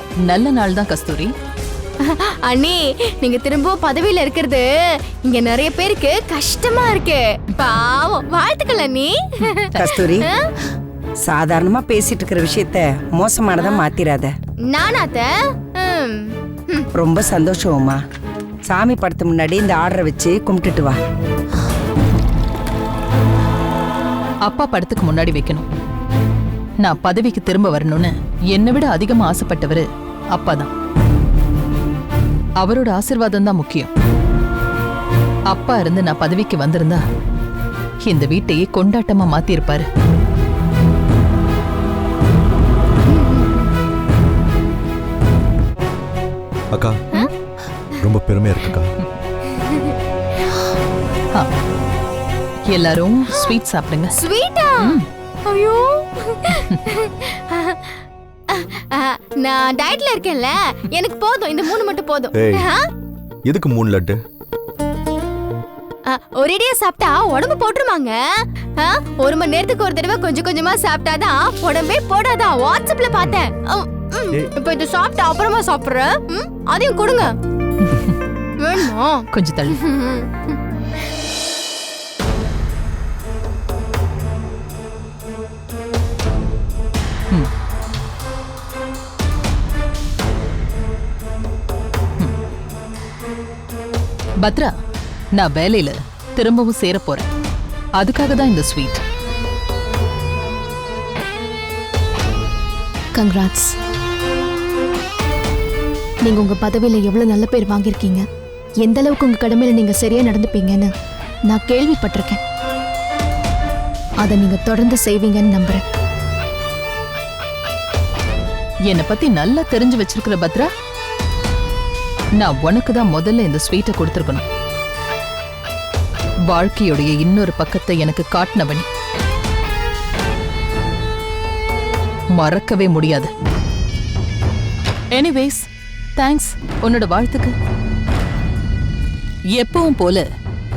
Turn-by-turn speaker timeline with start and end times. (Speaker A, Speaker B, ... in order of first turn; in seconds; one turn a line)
Speaker A: 0.2-1.3
Speaker B: 2.0-4.7
Speaker B: 5.3-9.4
Speaker C: 9.8-10.3
Speaker C: 11.3-14.3
Speaker B: 14.7-16.9
Speaker C: 16.9-18.0
Speaker C: 18.7-21.0
Speaker A: 24.4-25.6
Speaker A: 26.8-30.7
Speaker A: 32.6-33.9
Speaker A: 35.5-37.0
Speaker A: 38.0-39.9
Speaker B: 43.1-43.7
Speaker D: 46.7-47.0
Speaker D: 48.0-48.9
Speaker B: 49.6-49.9
Speaker A: 52.7-54.1
Speaker B: 54.1-58.0
Speaker A: 54.8-55.0
Speaker B: 58.5-62.8
Speaker D: 62.3-62.7
Speaker D: 63.5-64.2
Speaker B: 66.1-68.2
Speaker B: 68.8-77.3
Speaker A: 77.8-78.2
Speaker B: 78.6-80.3
Speaker A: 79.3-79.8
Speaker A: 94.4-94.7
Speaker A: 95.3-97.3
Speaker A: 98.0-99.0
Speaker E: 103.2-103.7
Speaker E: 106.2-108.2
Speaker E: 108.8-110.9
Speaker E: 111.5-112.4
Speaker E: 114.2-115.8
Speaker A: 118.9-120.7
Speaker A: 122.4-124.4
Speaker A: 126.5-128.9
Speaker A: 132.3-133.3
Speaker A: 135.1-135.7
Speaker A: 136.2-137.5
Speaker A: 139.5-140.2